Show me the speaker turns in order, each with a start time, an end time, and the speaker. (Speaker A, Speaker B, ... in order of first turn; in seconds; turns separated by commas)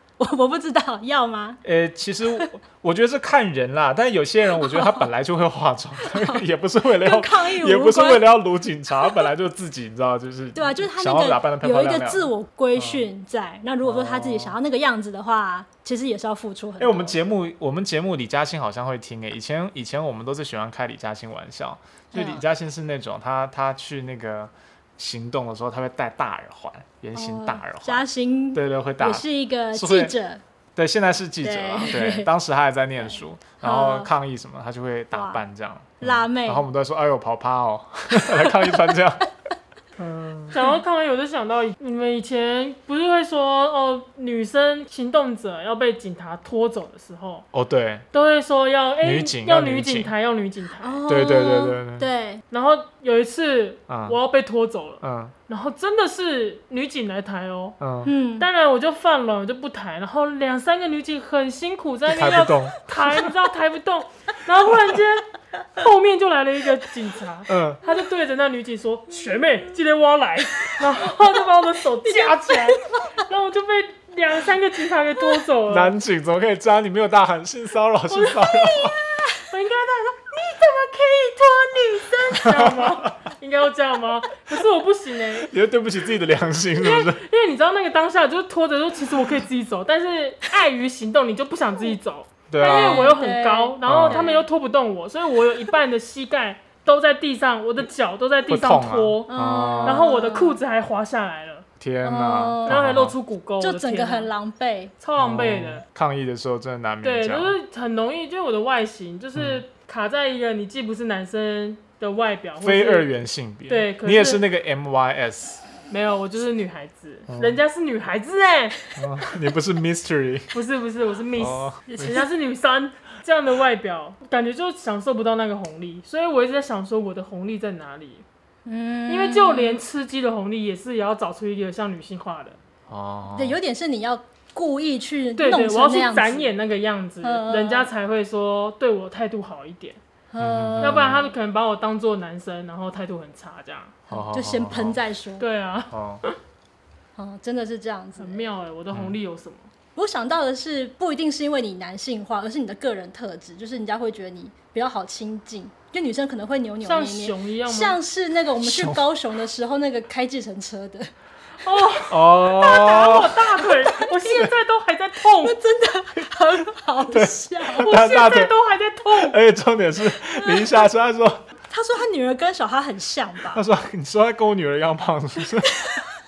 Speaker A: 0.2-1.6, Speaker B: 1.6-13.1, Speaker A: 4.6-5.1, Speaker A: 6.0-8.3, Speaker A: 9.0-9.3, Speaker A: 10.6-17.2, Speaker B: 13.8-14.6, Speaker B: 16.8-30.1, Speaker A: 22.1-22.4, Speaker A: 27.1-30.4, Speaker B: 30.8-39.3, Speaker A: 31.4-32.3, Speaker A: 33.0-34.1, Speaker A: 35.1-35.4, Speaker A: 36.0-36.6, Speaker A: 38.1-38.9, Speaker B: 40.0-40.6, Speaker C: 40.5-47.5, Speaker B: 47.5-48.1, Speaker C: 48.1-51.0, Speaker B: 49.0-50.1, Speaker A: 50.8-52.4, Speaker B: 51.1-52.1, Speaker C: 52.5-57.8, Speaker B: 53.9-54.2, Speaker B: 55.0-55.3, Speaker B: 57.8-58.1, Speaker A: 58.0-58.5, Speaker C: 58.4-76.0, Speaker B: 62.1-62.8, Speaker B: 67.5-67.8, Speaker A: 72.0-73.1, Speaker B: 75.7-79.0, Speaker C: 78.1-78.7, Speaker A: 78.6-79.5, Speaker C: 79.5-85.5, Speaker B: 82.3-83.1, Speaker B: 85.4-87.2, Speaker C: 86.8-99.3, Speaker B: 92.5-93.1, Speaker A: 92.6-94.5, Speaker B: 93.9-94.2, Speaker B: 98.5-100.1, Speaker A: 99.3-100.6, Speaker C: 99.8-101.7, Speaker B: 101.8-103.1, Speaker A: 102.0-102.8, Speaker C: 102.7-104.3, Speaker A: 103.6-104.9, Speaker C: 105.0-105.8, Speaker B: 105.2-107.5, Speaker C: 107.0-113.1, Speaker B: 109.4-109.6, Speaker B: 112.6-115.6, Speaker C: 113.7-114.4, Speaker C: 115.9-118.8, Speaker B: 117.3-117.6, Speaker B: 119.0-120.5, Speaker C: 120.5-128.2, Speaker B: 121.4-122.2, Speaker A: 128.7-129.8, Speaker C: 129.1-132.6, Speaker B: 132.9-133.6, Speaker A: 133.3-136.5, Speaker C: 135.4-140.0, Speaker A: 137.2-137.9, Speaker A: 140.3-141.2, Speaker B: 140.4-141.3, Speaker C: 140.8-144.0, Speaker A: 144.1-145.4, Speaker B: 144.1-145.0, Speaker C: 145.4-146.4, Speaker B: 145.9-146.2, Speaker A: 147.2-148.4, Speaker C: 148.2-149.7, Speaker A: 150.0-161.1, Speaker C: 156.8-158.0, Speaker B: 158.6-159.1, Speaker C: 161.6-165.6, Speaker B: 162.1-163.4, Speaker A: 162.8-164.5, Speaker A: 165.2-167.9, Speaker B: 167.1-168.5, Speaker C: 167.8-169.4, Speaker B: 169.1-171.4, Speaker A: 170.3-170.9, Speaker A: 171.7-173.6, Speaker B: 173.5-175.8, Speaker A: 175.7-176.0